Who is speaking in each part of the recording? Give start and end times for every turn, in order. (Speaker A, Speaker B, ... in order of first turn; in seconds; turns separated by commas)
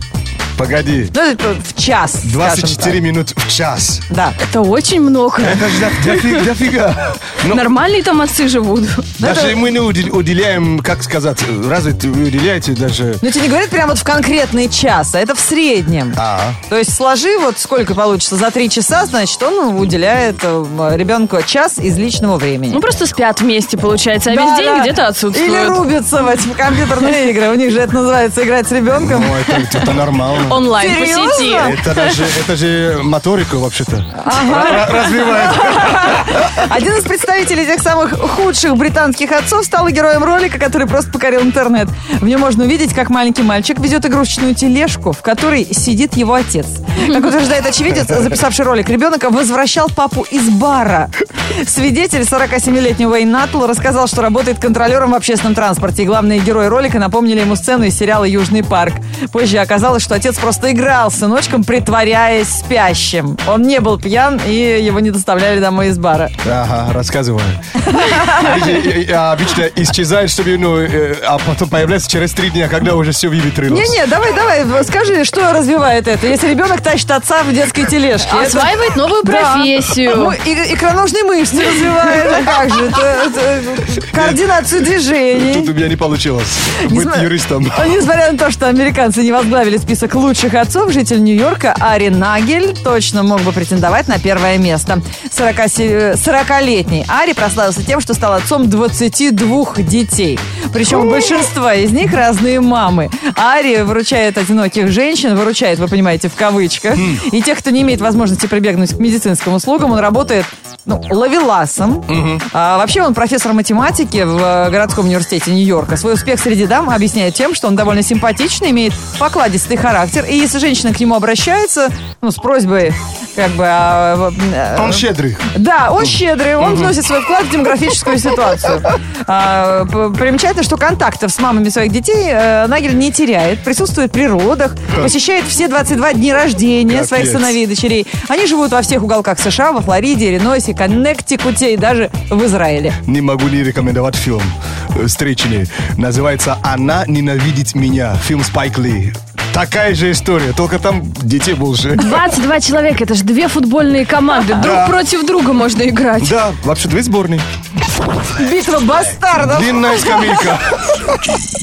Speaker A: 0.6-1.1, Speaker B: 1.1-3.0, Speaker A: 2.2-4.0, Speaker B: 4.1-4.4, Speaker C: 4.4-6.5, Speaker A: 5.4-7.7, Speaker C: 7.4-9.1, Speaker B: 9.2-9.7, Speaker A: 9.2-13.2, Speaker B: 13.2-22.8, Speaker A: 16.2-16.6, Speaker C: 22.7-25.8, Speaker B: 24.3-29.7, Speaker A: 28.9-30.7, Speaker C: 30.4-32.3, Speaker B: 30.7-31.8, Speaker A: 31.5-36.4, Speaker B: 34.2-66.3, Speaker A: 66.4-74.0, Speaker B: 67.8-68.6, Speaker B: 73.7-85.7, Speaker C: 78.2-80.4, Speaker A: 84.1-84.5, Speaker A: 85.3-87.9, Speaker B: 86.8-143.0, Speaker A: 100.8-101.2, Speaker A: 107.0-107.2, Speaker A: 112.1-112.4, Speaker A: 124.8-127.0, Speaker A: 136.9-137.6, Speaker A: 143.0-152.2, Speaker C: 152.0-156.3, Speaker A: 154.5-155.0, Speaker A: 156.2-157.4, Speaker B: 158.3-160.6, Speaker A: 159.4-161.4